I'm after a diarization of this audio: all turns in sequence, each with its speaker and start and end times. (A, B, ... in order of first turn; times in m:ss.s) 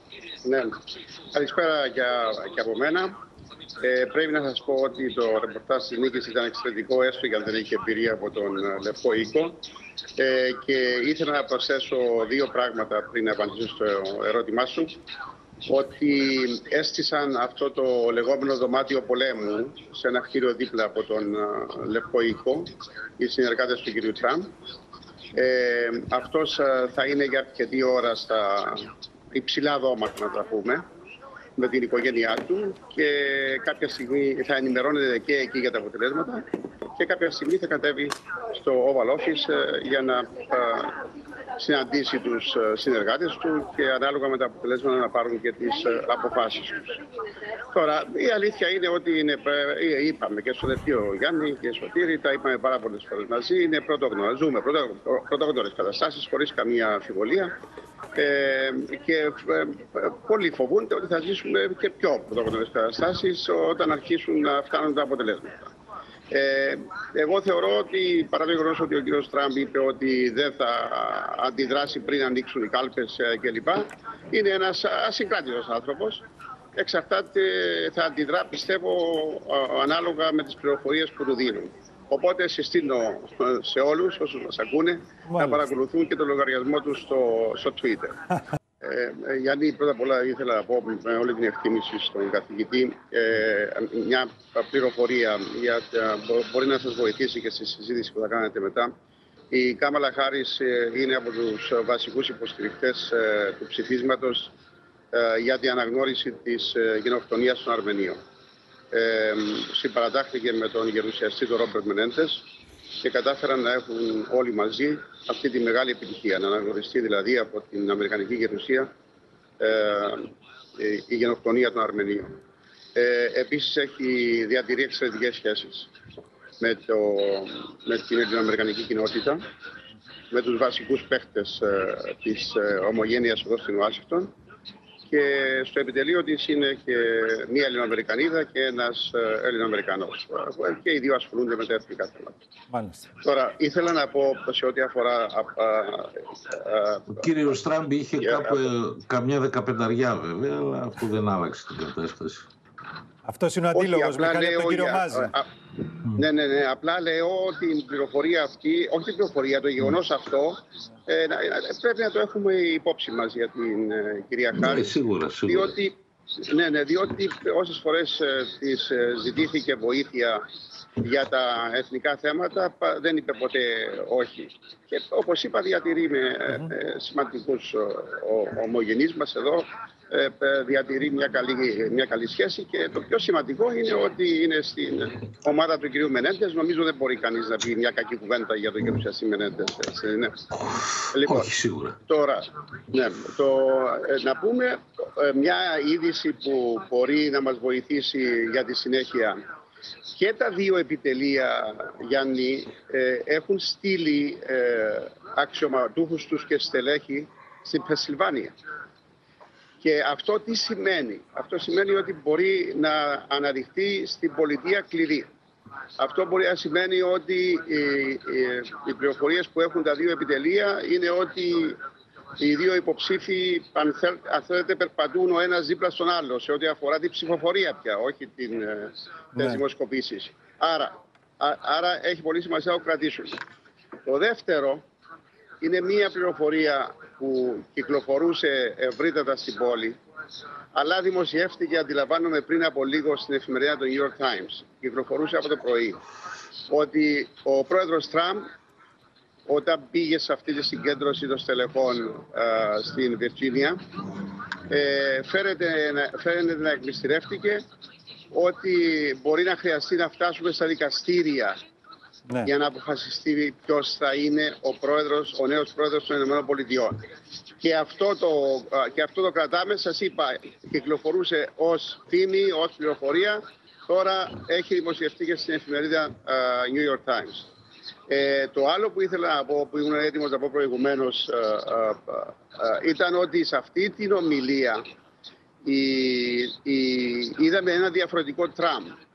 0:00.4-0:00.8 A
0:01.3-0:03.2 A
0:03.8-0:09.6 A
0:10.2-0:15.0 A
0:15.7-0:24.5 A
0:25.4-0:30.8 A
0:31.6-0:36.4 A
0:37.0-0:41.0 A
0:41.6-0:47.0 A
0:47.7-0:57.5 A
0:58.2-1:05.7 A
1:06.3-1:16.2 A
1:16.8-1:28.2 A
1:25.3-1:25.6 B
1:28.8-1:38.9 A
1:39.5-1:44.5 A
1:45.1-1:48.2 A
1:48.9-1:52.5 A
1:53.0-1:58.9 A
1:59.6-2:02.3 A
2:03.0-2:05.9 A
2:06.6-2:09.4 A
2:10.3-2:14.3 A
2:15.1-2:22.4 A
2:22.7-2:23.0 B
2:23.2-2:27.2 A
2:27.2-2:32.5 C
2:28.2-2:28.6 A
2:33.2-2:35.3 B
2:33.7-2:44.9 A
2:44.6-2:45.7 C
2:45.5-2:50.4 A
2:51.0-3:10.4 A
3:11.1-3:11.5 A
3:11.3-3:11.8 C
3:12.0-3:19.4 A
3:20.1-3:28.5 A
3:29.8-3:35.3 A
3:36.0-3:41.8 A
3:42.4-3:53.4 A
3:54.1-3:54.8 A
3:55.6-4:00.0 A
4:00.7-4:06.0 A
4:06.7-4:08.5 A
4:09.5-4:13.8 A
4:14.7-4:17.6 A
4:18.3-4:21.6 A
4:22.4-4:27.0 A
4:27.6-4:37.5 A
4:38.1-4:44.8 A
4:45.6-4:49.0 A